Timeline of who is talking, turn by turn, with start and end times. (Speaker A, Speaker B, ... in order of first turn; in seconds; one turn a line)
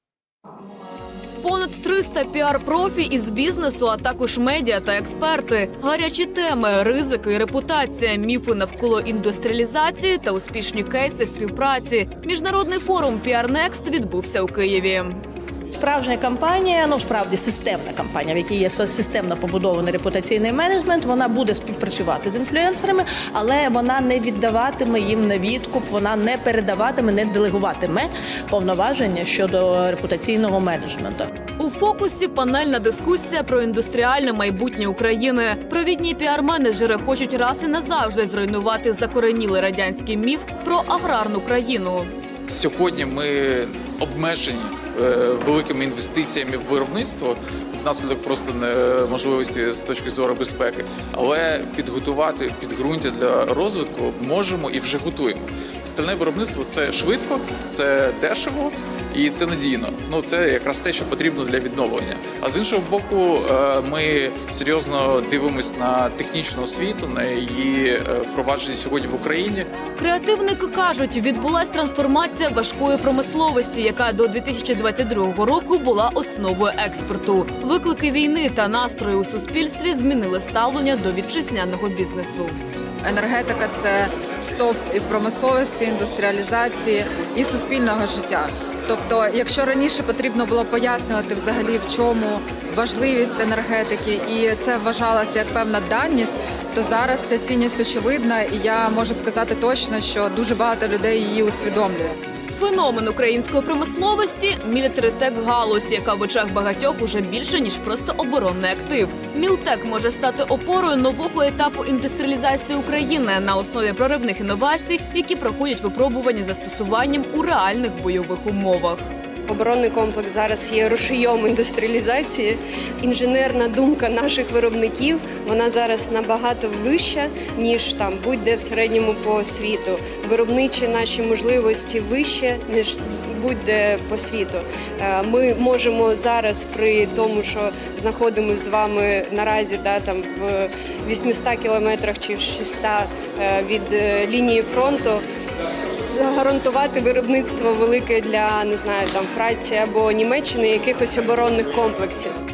Speaker A: 1.4-15.2
Speaker B: 15.7-31.3
Speaker A: 31.6-42.1
Speaker C: 42.5-69.7
Speaker A: 70.0-82.5
Speaker D: 83.0-102.2
Speaker A: 102.5-119.1
Speaker E: 119.5-152.3